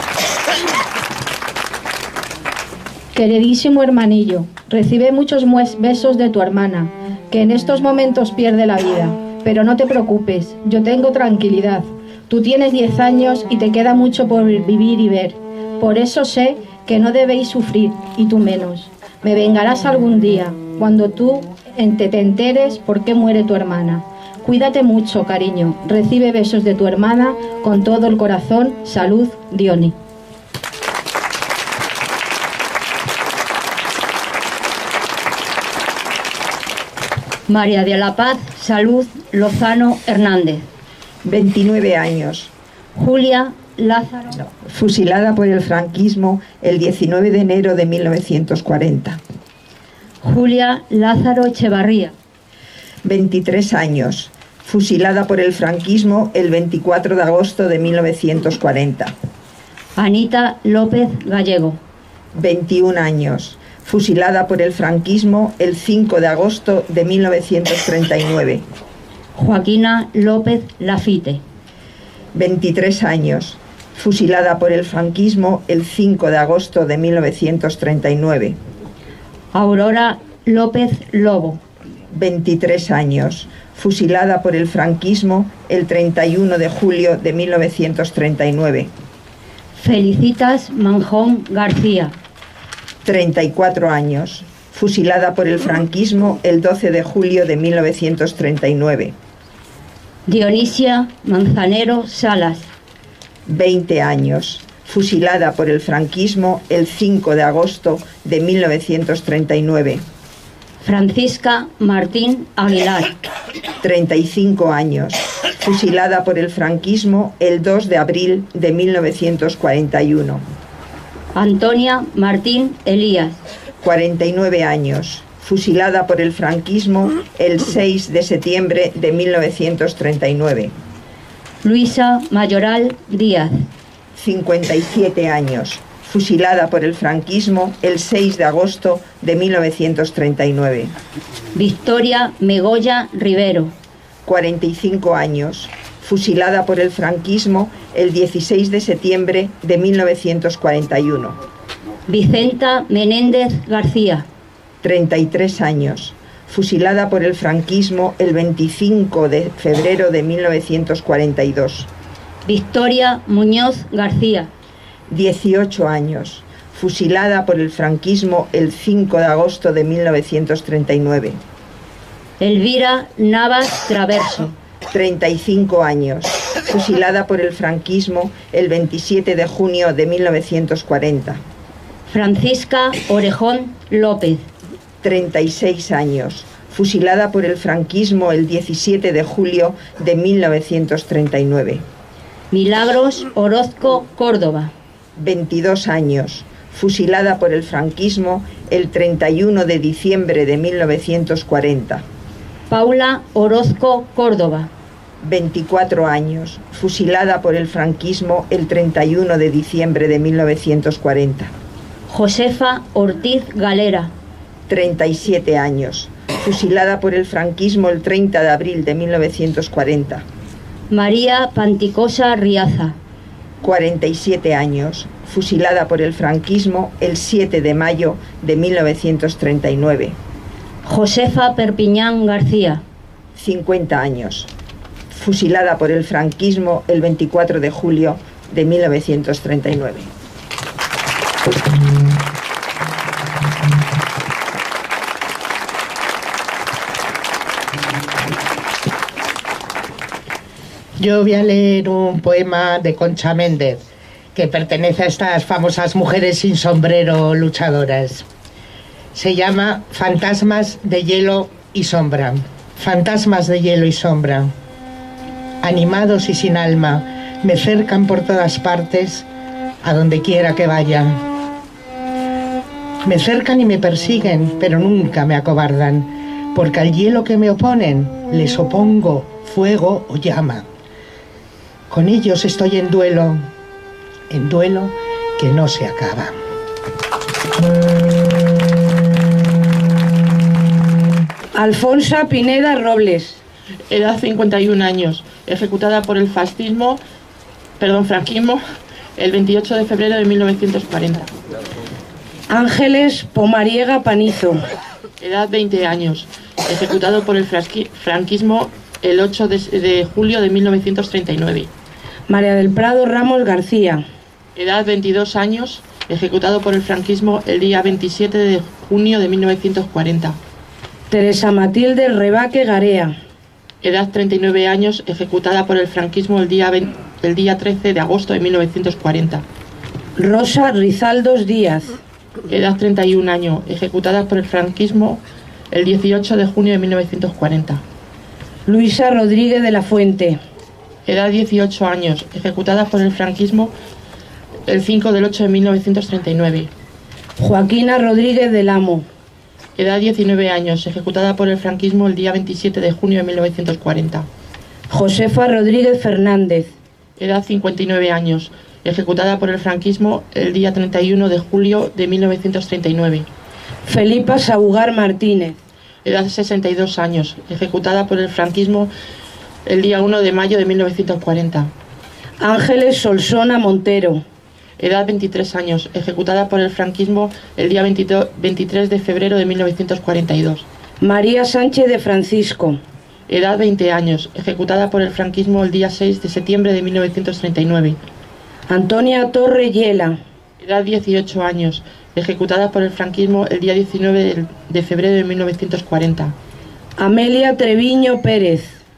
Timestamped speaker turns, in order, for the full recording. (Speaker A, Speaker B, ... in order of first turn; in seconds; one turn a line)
Speaker A: 3.1-29.9
Speaker B: 37.5-40.7
Speaker C: 41.2-42.5
Speaker B: 42.9-44.3
Speaker C: 44.4-49.2
Speaker B: 50.2-52.1
Speaker C: 53.0-59.1
Speaker B: 60.0-61.8
Speaker C: 62.3-68.7
Speaker B: 69.3-71.4
Speaker C: 72.3-78.6
Speaker B: 79.5-81.6
Speaker C: 82.1-88.9
Speaker B: 89.7-92.2
Speaker C: 93.0-99.1
Speaker B: 100.3-102.7
Speaker C: 103.5-110.0
Speaker B: 110.8-113.2
Speaker C: 113.8-120.4
Speaker B: 121.3-123.4
Speaker C: 123.8-130.7
Speaker B: 131.6-133.7
Speaker C: 134.1-140.9
Speaker B: 141.5-143.7
Speaker C: 144.2-151.4
Speaker B: 152.1-154.2
Speaker C: 154.8-161.9
Speaker B: 162.4-164.5
Speaker C: 165.1-171.4
Speaker B: 172.4-174.5
Speaker C: 174.9-181.4
Speaker B: 182.1-184.4
Speaker C: 185.0-191.8
Speaker B: 192.5-194.7
Speaker C: 195.2-202.0
Speaker B: 202.7-204.7
Speaker C: 205.2-211.5
Speaker B: 212.1-214.1
Speaker C: 214.7-220.2
Speaker B: 220.9-222.9
Speaker C: 223.6-230.2
Speaker B: 230.8-232.8
Speaker C: 233.3-234.5
Speaker C: 235.1-240.1
Speaker D: 251.0-253.8
Speaker D: 254.3-258.2
Speaker D: 259.1-264.5
Speaker D: 265.6-269.2
Speaker D: 269.8-271.2
Speaker D: 273.0-280.6
Speaker D: 281.9-283.4
Speaker D: 284.3-286.4
Speaker E: 291.5-293.4
Speaker F: 293.9-297.0
Speaker F: 297.8-298.6
Speaker F: 299.2-301.3
Speaker E: 302.5-304.6
Speaker F: 305.2-311.7
Speaker E: 312.3-314.0
Speaker F: 314.6-320.4
Speaker E: 321.1-323.1
Speaker F: 323.8-329.4
Speaker E: 330.1-332.0
Speaker F: 332.5-337.8
Speaker E: 338.6-340.4
Speaker F: 341.1-343.7
Speaker F: 344.6-346.7
Speaker E: 347.4-349.1
Speaker F: 349.8-354.3
Speaker E: 354.9-356.7
Speaker F: 357.2-363.3
Speaker E: 363.8-365.6
Speaker F: 366.0-368.9
Speaker F: 369.6-371.7
Speaker E: 372.4-374.2
Speaker F: 374.8-380.6
Speaker E: 381.0-382.8
Speaker F: 383.3-388.0
Speaker E: 388.7-390.2
Speaker F: 390.6-396.3
Speaker E: 397.0-398.8